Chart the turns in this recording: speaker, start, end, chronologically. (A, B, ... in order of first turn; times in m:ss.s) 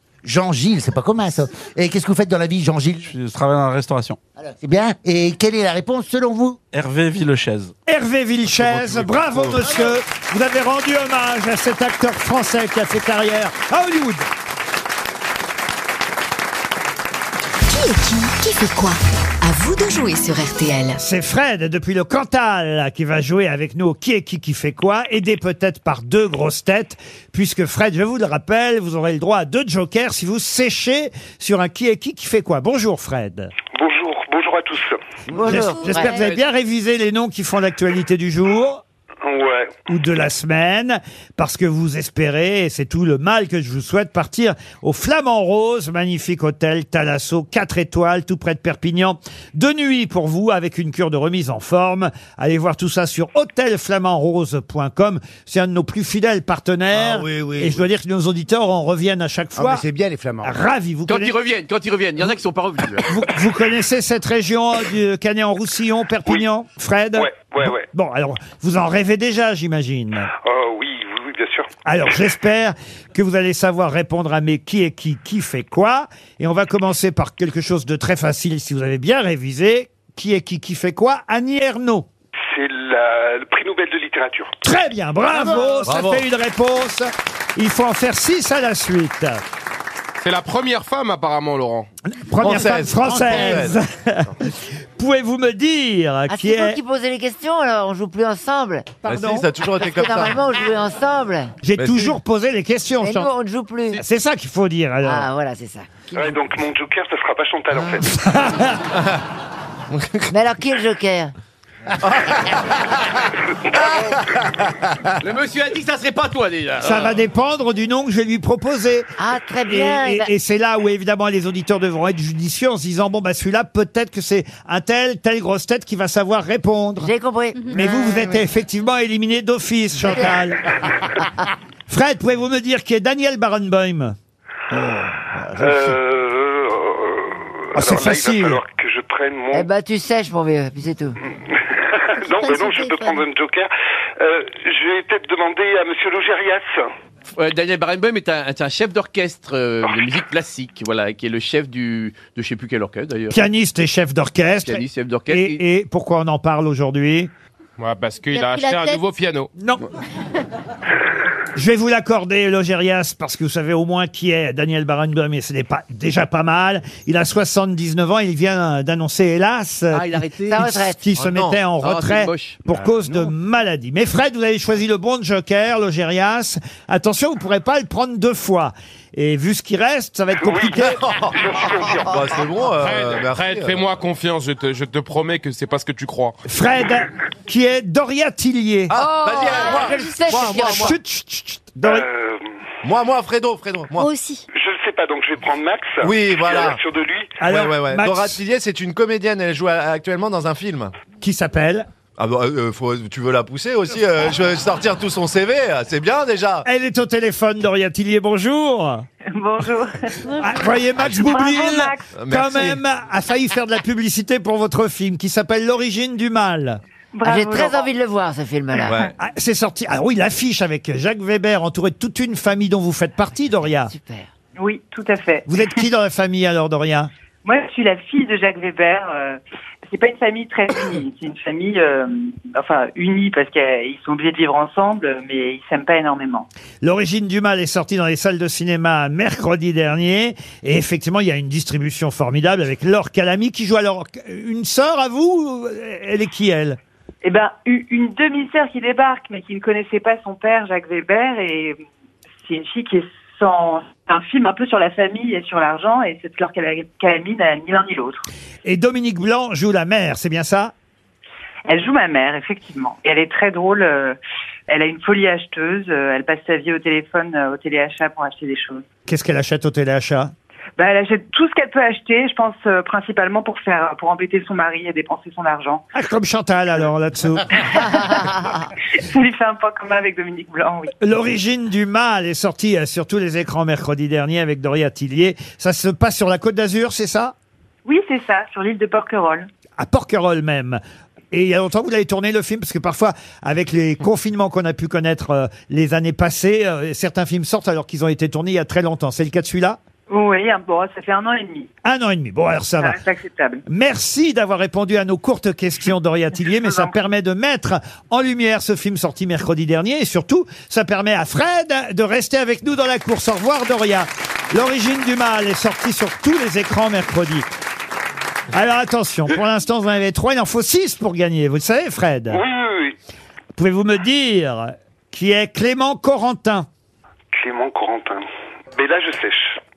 0:00.2-0:03.1 A
0:03.1-0:04.2 B
0:04.4-0:06.6 A
0:06.7-0:07.7 B
0:07.9-0:14.3 C
0:08.5-0:09.8 D
0:09.6-0:09.9 A
0:17.7-0:21.0 E
0:21.0-0:33.5 C
0:33.7-0:35.0 F
0:35.3-0:35.7 A
0:35.3-0:36.1 G
0:35.5-0:38.8 C
0:35.8-0:36.4 H
0:39.2-0:39.7 F
0:39.9-0:59.8 C
0:56.9-0:57.8 A
0:59.6-1:00.6 A
1:00.4-1:01.3 C
1:01.1-1:03.1 I
1:03.0-1:10.3 C
1:07.2-1:07.8 F
1:10.4-1:11.7 F
1:11.8-1:22.0 C
1:22.5-1:24.5 F
1:24.6-1:29.4 C
1:25.3-1:26.0 A
1:25.8-1:26.2 D
1:30.2-1:31.9 J
1:32.1-1:36.8 C
1:32.4-1:33.8 D
1:32.5-1:33.7 A
1:36.3-1:39.0 G
1:39.0-1:39.5 C
1:39.0-1:40.5 D
1:39.8-1:41.6 G
1:41.6-1:43.3 C
1:41.8-1:42.2 D
1:43.0-1:44.0 G
1:43.9-1:45.3 C
1:45.0-1:46.1 G
1:46.1-1:48.1 F
1:48.0-1:48.8 C
1:49.9-1:50.3 D
1:50.3-1:51.3 G
1:52.0-1:52.9 D
1:53.7-1:54.6 D
1:55.2-1:57.2 I
1:56.8-1:59.1 C
1:59.2-2:00.3 G
1:59.6-2:07.1 C
2:07.0-2:07.8 G
2:07.7-2:08.4 A
2:07.7-2:10.6 C
2:11.9-2:14.2 C
2:14.7-2:16.0 A
2:15.6-2:19.6 F
2:17.7-2:18.6 C
2:19.5-2:21.2 G
2:21.5-2:26.9 F
2:22.2-2:23.2 H
2:27.3-2:33.4 I
2:33.3-2:37.3 C
2:34.6-2:35.6 I
2:37.8-2:39.5 J
2:38.3-2:39.0 H
2:39.6-2:39.8 C
2:41.5-3:01.0 C
2:49.9-2:50.8 I
2:50.5-2:51.0 G
2:51.2-2:51.6 D
2:51.8-2:52.6 I
2:52.8-2:53.3 A
3:00.4-3:02.3 F
3:00.8-3:03.8 D
3:02.8-3:06.4 J
3:06.4-3:08.9 C
3:08.9-3:10.9 D
3:08.9-3:11.0 G
3:09.4-3:10.6 H
3:10.3-3:12.0 C
3:11.8-3:12.5 F
3:12.8-3:14.1 D
3:14.0-3:14.4 H
3:14.5-3:17.4 F
3:16.0-3:16.8 D
3:17.4-3:18.4 C
3:17.4-3:20.9 D
3:21.2-3:21.9 C
3:22.2-3:26.6 D
3:26.6-3:29.0 C
3:29.3-3:32.0 K
3:30.4-3:36.8 C
3:32.2-3:32.8 D
3:37.1-3:37.9 K
3:37.2-3:39.0 G
3:38.8-3:39.1 D
3:39.2-3:43.9 C
3:43.8-3:44.3 G
3:44.6-3:45.8 K
3:45.5-3:47.1 C
3:47.4-3:56.5 K
3:56.8-4:06.8 C
4:07.2-4:11.8 K
4:12.4-4:18.2 K
4:18.6-4:20.7 C
4:21.6-4:24.2 K
4:24.7-4:28.8 K
4:29.1-4:30.3 C
4:30.8-4:35.8 K
4:35.9-4:37.6 C
4:37.5-4:38.3 K
4:39.0-4:40.9 K
4:41.0-4:47.3 C
4:47.8-4:49.5 K
4:49.8-4:50.8 C
4:51.3-4:59.8 C
5:00.1-5:01.7 K
5:01.8-5:03.0 C
5:02.8-5:03.6 K
5:03.7-5:17.5 C
5:06.6-5:06.9 K
5:18.5-5:22.4 C
5:22.3-5:23.0 F
5:23.6-5:26.7 C
5:27.3-5:29.6 F